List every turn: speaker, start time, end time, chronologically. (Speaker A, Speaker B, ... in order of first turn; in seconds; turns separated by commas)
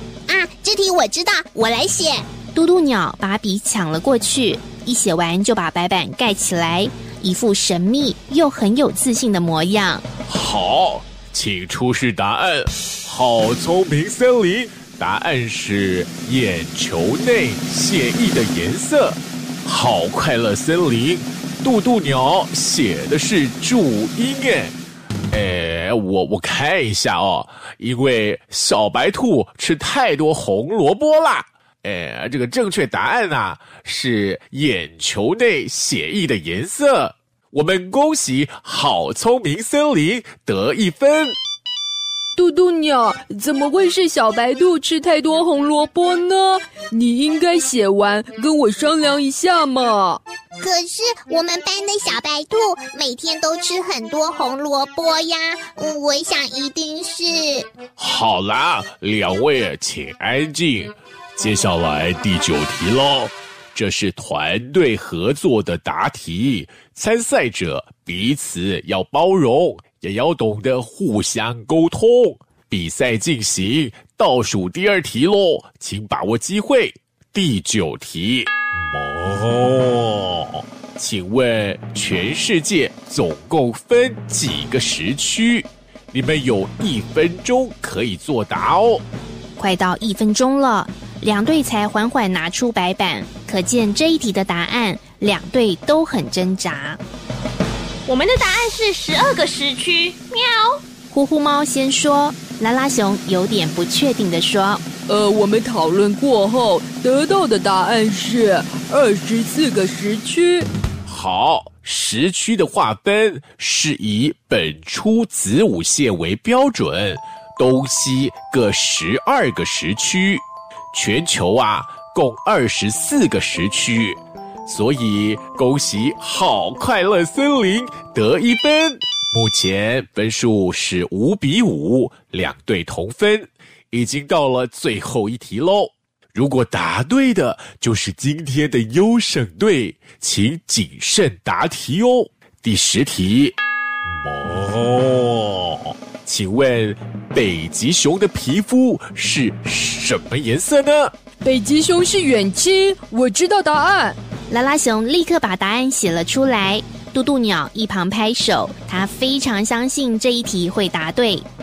Speaker A: 0.3-2.3, Speaker B: 2.5-10.0, Speaker C: 10.3-24.7, Speaker C: 25.3-41.3, Speaker D: 42.4-50.2, Speaker A: 50.6-57.7, Speaker C: 58.0-89.0, Speaker B: 89.6-97.0, Speaker E: 98.1-100.8, Speaker B: 101.1-104.8, Speaker D: 105.1-110.7, Speaker C: 111.1-151.1, Speaker D: 151.4-154.2, Speaker B: 154.5-161.4